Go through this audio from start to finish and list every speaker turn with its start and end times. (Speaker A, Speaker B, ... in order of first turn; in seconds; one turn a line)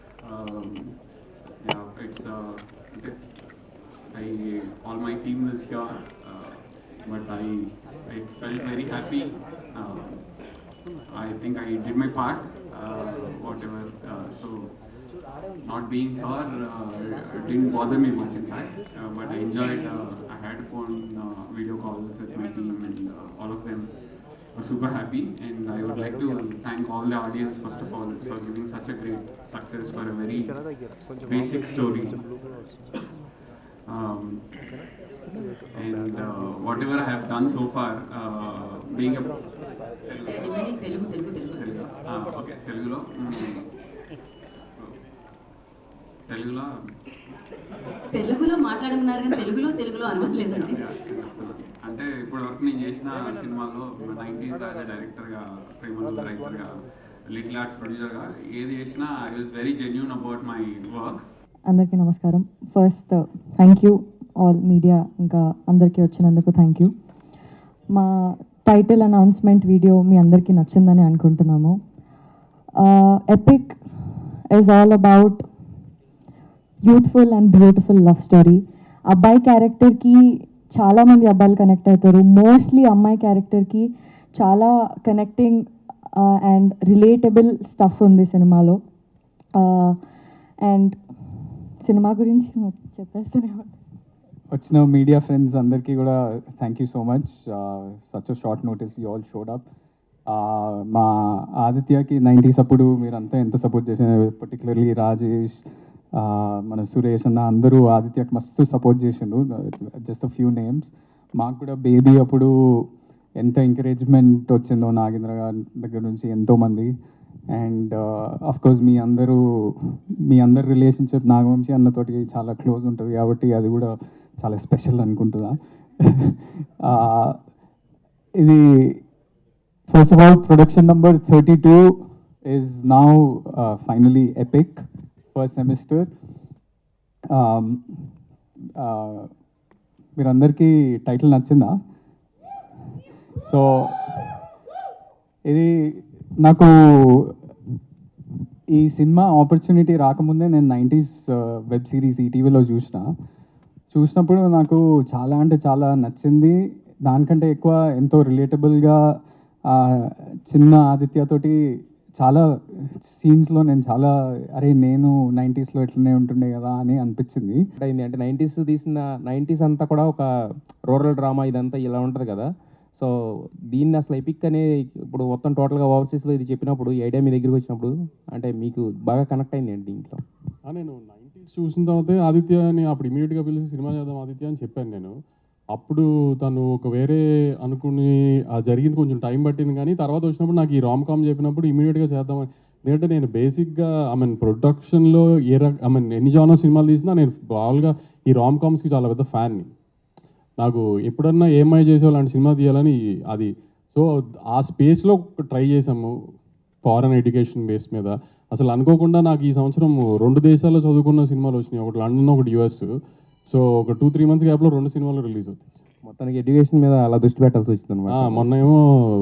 Speaker A: 0.2-0.9
Speaker A: 1.6-10.4
Speaker A: 11.1-14.8
Speaker A: 15.6-24.0
Speaker A: 24.5-30.6
Speaker A: 31.2-32.3
Speaker A: 33.9-34.5
Speaker A: 35.7-43.7
Speaker B: 40.2-41.7
Speaker A: 46.3-46.7
Speaker B: 48.1-50.8
Speaker A: 50.6-61.2
Speaker C: 61.7-66.9
Speaker C: 67.9-71.8
Speaker C: 72.8-73.8
Speaker C: 74.5-75.5
Speaker C: 76.8-88.8
Speaker C: 89.6-90.0
Speaker C: 90.6-91.0
Speaker C: 91.8-93.8
Speaker D: 94.5-99.7
Speaker D: 100.3-105.6
Speaker D: 106.2-112.8
Speaker D: 113.4-116.9
Speaker D: 117.5-127.4
Speaker D: 128.4-129.0
Speaker D: 129.9-134.8
Speaker D: 135.3-136.1
Speaker D: 137.3-137.8
Speaker D: 138.8-139.3
Speaker D: 140.2-141.8
Speaker D: 143.4-144.3
Speaker D: 145.5-147.4
Speaker D: 148.7-153.1
Speaker D: 153.9-159.0
Speaker D: 159.7-161.6
Speaker D: 162.2-167.6
Speaker E: 167.8-170.3
Speaker E: 170.9-173.1
Speaker E: 173.7-180.2
Speaker F: 180.7-185.1
Speaker F: 185.7-199.7
Speaker F: 200.6-206.1
Speaker F: 206.8-212.9
Speaker F: 213.5-215.8
Speaker E: 216.0-218.5
Speaker F: 218.1-218.8